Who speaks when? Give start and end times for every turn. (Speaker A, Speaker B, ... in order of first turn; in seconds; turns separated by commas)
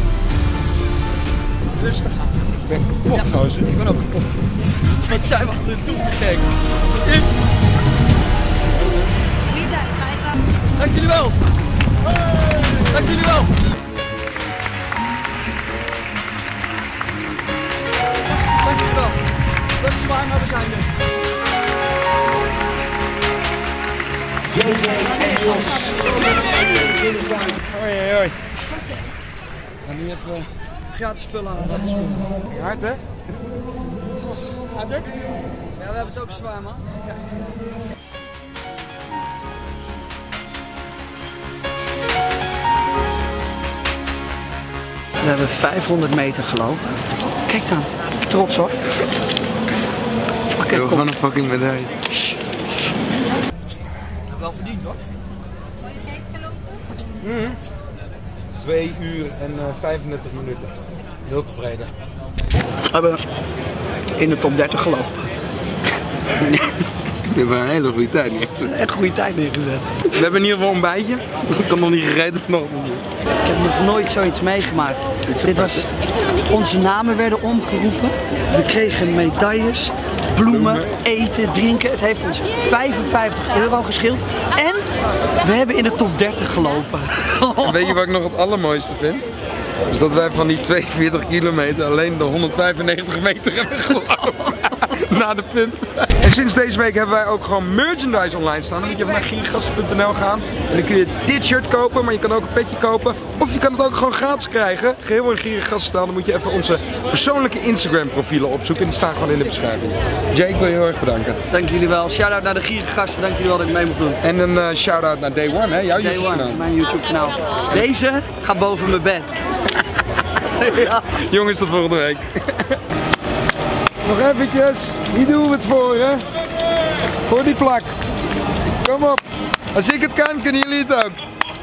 Speaker A: 1.7-2.5, Speaker B: 2.6-3.7, Speaker A: 3.0-7.4, Speaker A: 10.6-11.5, Speaker A: 12.2-13.5, Speaker A: 18.3-19.2, Speaker A: 19.8-20.9, Speaker B: 27.7-28.4, Speaker B: 29.8-30.5, Speaker A: 30.9-32.3, Speaker B: 32.5-33.0, Speaker A: 34.2-35.1, Speaker A: 35.7-37.1, Speaker A: 45.2-49.1, Speaker A: 50.6-51.1, Speaker B: 50.7-51.9, Speaker A: 52.1-52.6, Speaker A: 54.3-55.0, Speaker B: 57.2-57.5, Speaker B: 58.6-60.7, Speaker B: 61.2-61.9, Speaker A: 62.8-63.2, Speaker A: 64.2-65.3, Speaker A: 66.4-66.8, Speaker B: 67.3-68.7, Speaker A: 68.6-70.2, Speaker B: 70.1-73.0, Speaker A: 73.4-84.9, Speaker B: 75.3-75.8, Speaker B: 80.4-80.9, Speaker A: 85.4-88.0, Speaker B: 87.6-89.3, Speaker B: 89.9-111.4, Speaker A: 111.5-114.2, Speaker B: 114.2-116.6, Speaker A: 116.0-119.4, Speaker A: 120.4-121.0, Speaker B: 120.6-122.8, Speaker B: 124.0-126.2, Speaker B: 127.2-127.9, Speaker B: 128.8-129.2, Speaker B: 129.7-131.2